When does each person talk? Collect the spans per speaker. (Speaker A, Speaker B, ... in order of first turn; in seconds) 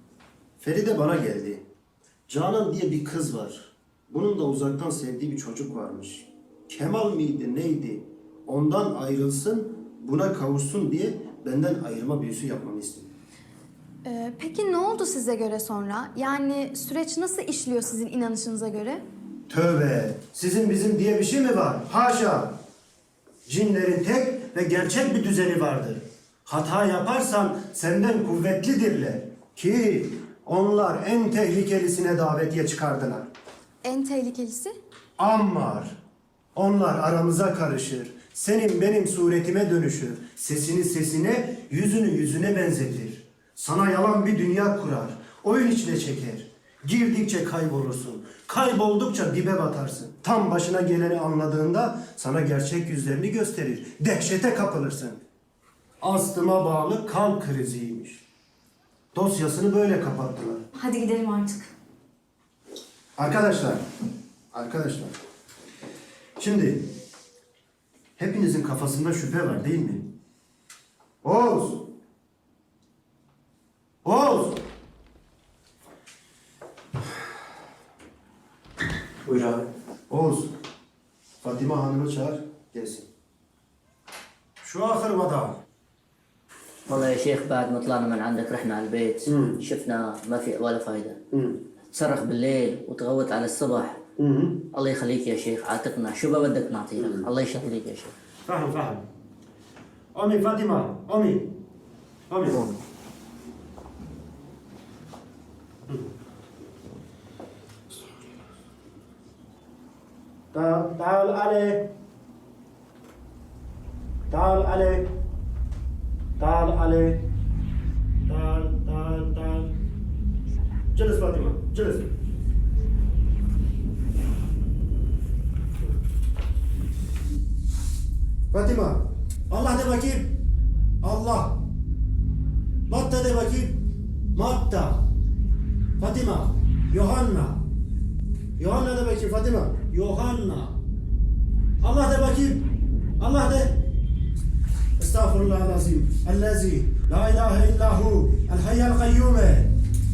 Speaker A: 0.6-1.6, 2.3-13.1, 19.5-22.6, 23.4-33.3, 35.2-36.0, 36.5-55.2, 56.0-58.2, 59.1-60.6, 63.2-63.8, 64.5-65.1, 66.4-66.9, 68.2-70.1, 71.2-71.9, 74.0-74.6, 79.3-80.5, 81.4-83.1, 84.6-85.6, 89.2-89.6, 91.3-91.6, 94.2-94.7, 97.0-97.3, 98.5-99.0, 100.1-101.6, 102.3-102.7, 110.5-111.9, 114.3-115.1, 116.4-117.3, 118.3-119.7, 120.9-122.1, 128.5-130.4, 131.0-131.6, 132.9-135.1, 136.0-137.6, 138.6-140.8, 141.8-142.6, 143.2-143.9, 145.0-149.8
Speaker B: 14.0-19.0, 33.8-34.7, 60.7-61.7
Speaker C: 86.9-91.2, 91.9-94.0, 94.7-98.1